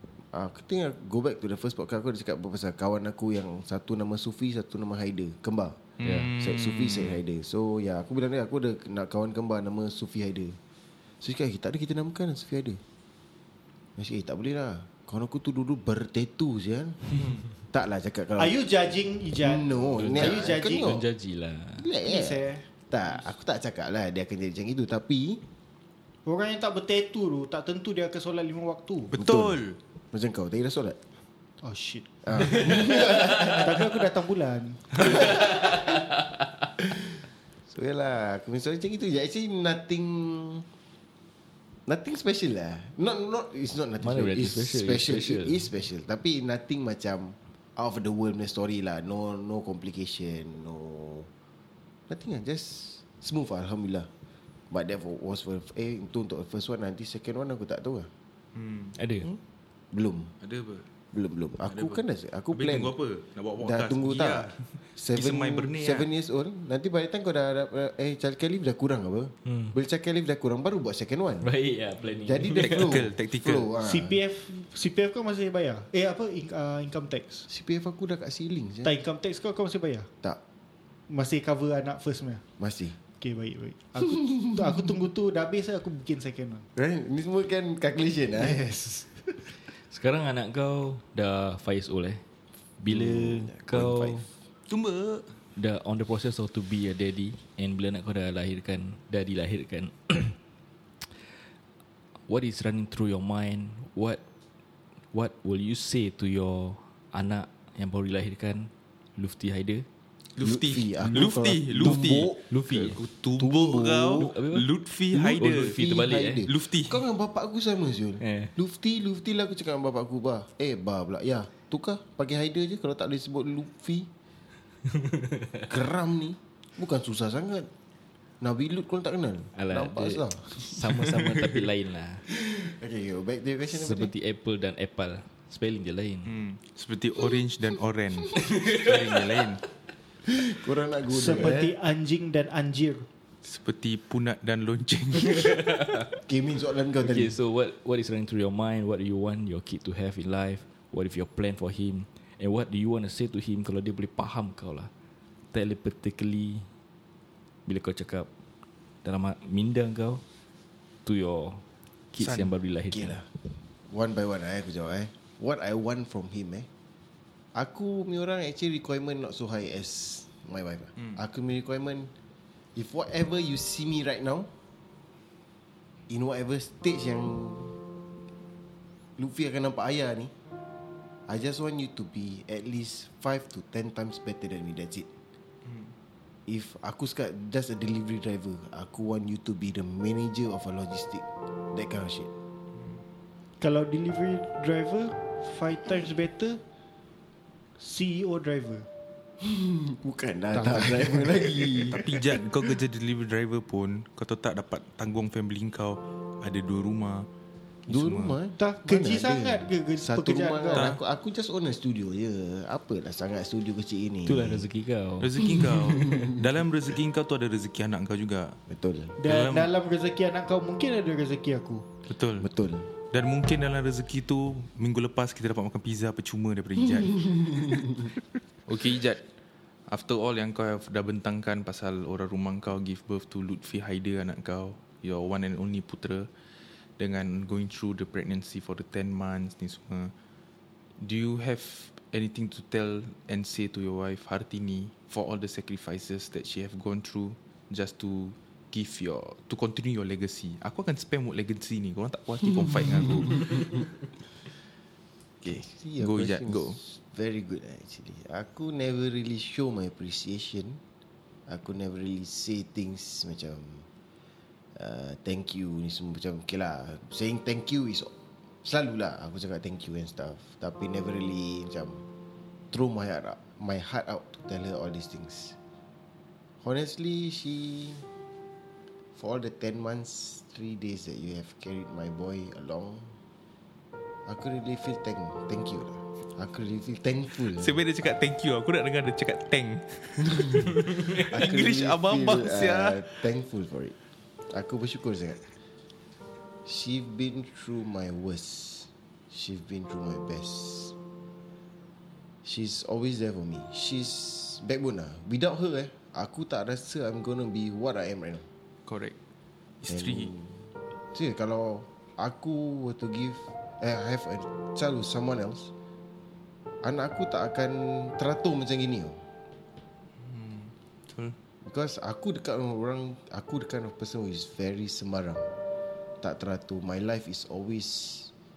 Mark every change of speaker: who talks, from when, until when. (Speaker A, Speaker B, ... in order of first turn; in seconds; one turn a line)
Speaker A: 0.3-10.6
Speaker B: 6.0-7.2
Speaker C: 6.0-6.3
Speaker A: 11.2-12.8
Speaker A: 14.0-17.1
Speaker B: 17.1-17.4
Speaker A: 17.7-18.6
Speaker D: 18.4-20.9
Speaker A: 19.4-21.0
Speaker C: 19.9-21.9
Speaker A: 21.8-25.4
Speaker D: 22.0-22.6
Speaker D: 26.2-29.1
Speaker B: 29.1-29.8
Speaker A: 29.1-29.6
Speaker A: 30.1-31.0
Speaker D: 31.6-35.3
Speaker A: 32.2-34.0
Speaker A: 35.0-35.9
Speaker C: 35.2-36.4
Speaker A: 37.7-40.7
Speaker A: 41.9-51.3
Speaker C: 44.0-45.7
Speaker A: 52.1-54.1
Speaker A: 54.7-58.1
Speaker B: 58.5-59.0
Speaker C: 59.0-59.3
Speaker A: 59.9-60.3
Speaker B: 60.4-60.9
Speaker A: 61.1-63.0
Speaker B: 61.7-66.1
Speaker A: 63.6-71.5
Speaker C: 69.5-69.7
Speaker C: 71.4-73.0
Speaker A: 72.2-74.2
Speaker B: 72.6-73.7
Speaker D: 73.8-77.5
Speaker A: 77.5-78.9
Speaker D: 78.8-80.1
Speaker D: 81.1-82.4
Speaker A: 82.6-83.0
Speaker D: 83.1-86.7
Speaker A: 84.2-84.8
Speaker A: 86.8-89.5
Speaker C: 89.8-92.2
Speaker C: 92.8-94.2
Speaker A: 92.9-94.3
Speaker B: 94.7-95.3
Speaker C: 95.5-100.4
Speaker C: 102.3-104.2
Speaker C: 105.1-109.8
Speaker B: 110.3-115.8
Speaker A: 110.4-112.4
Speaker C: 111.1-113.0
Speaker A: 113.4-114.3
Speaker C: 114.2-116.5
Speaker A: 115.2-124.1
Speaker B: 116.5-117.0
Speaker C: 118.2-118.5
Speaker C: 124.9-125.7
Speaker A: 125.7-127.7
Speaker A: 128.4-130.7
Speaker C: 129.6-132.2
Speaker B: 131.0-131.4
Speaker A: 132.3-134.1
Speaker C: 133.7-136.3
Speaker B: 136.2-139.6
Speaker C: 138.4-138.9
Speaker A: 140.2-141.7
Speaker D: 141.1-143.1
Speaker B: 143.4-145.7
Speaker C: 145.3-146.1
Speaker A: 146.2-147.3
Speaker C: 147.0-154.9
Speaker C: 155.5-156.7
Speaker C: 157.7-158.3
Speaker C: 159.0-160.2
Speaker C: 161.1-163.2
Speaker B: 162.2-162.5
Speaker A: 162.9-163.3
Speaker A: 163.9-166.7
Speaker A: 167.5-172.1
Speaker A: 172.7-174.5
Speaker A: 176.1-177.8
Speaker A: 179.2-180.3
Speaker A: 181.3-185.1
Speaker B: 185.6-185.9
Speaker A: 186.5-192.3
Speaker D: 193.6-196.6
Speaker D: 197.8-198.8
Speaker A: 199.4-202.7
Speaker D: 200.6-201.9
Speaker B: 201.9-207.3
Speaker B: 207.9-208.4
Speaker A: 207.9-214.7
Speaker D: 208.6-210.9
Speaker B: 210.7-211.0
Speaker C: 214.2-215.3
Speaker B: 215.2-218.6
Speaker A: 215.4-216.3
Speaker A: 218.7-219.2
Speaker D: 219.2-221.9
Speaker B: 219.2-219.7
Speaker B: 222.1-222.5
Speaker A: 222.4-222.9
Speaker B: 223.1-228.0
Speaker A: 227.5-227.8
Speaker B: 228.7-229.2
Speaker B: 229.9-236.3
Speaker B: 237.0-240.1
Speaker B: 241.0-253.9
Speaker A: 255.4-260.8
Speaker B: 255.4-256.8
Speaker A: 261.5-263.9
Speaker A: 264.8-268.1
Speaker A: 268.6-272.0
Speaker A: 272.7-275.6
Speaker A: 276.6-278.1
Speaker A: 279.1-283.1
Speaker A: 284.2-287.8
Speaker B: 287.5-293.1
Speaker A: 290.4-293.9
Speaker A: 294.5-295.4
Speaker A: 296.6-300.9
Speaker A: 302.4-308.5
Speaker B: 308.9-309.1
Speaker B: 309.8-310.3
Speaker A: 309.9-315.7
Speaker A: 316.8-319.2
Speaker B: 320.2-321.3
Speaker A: 321.6-325.5
Speaker A: 326.2-328.3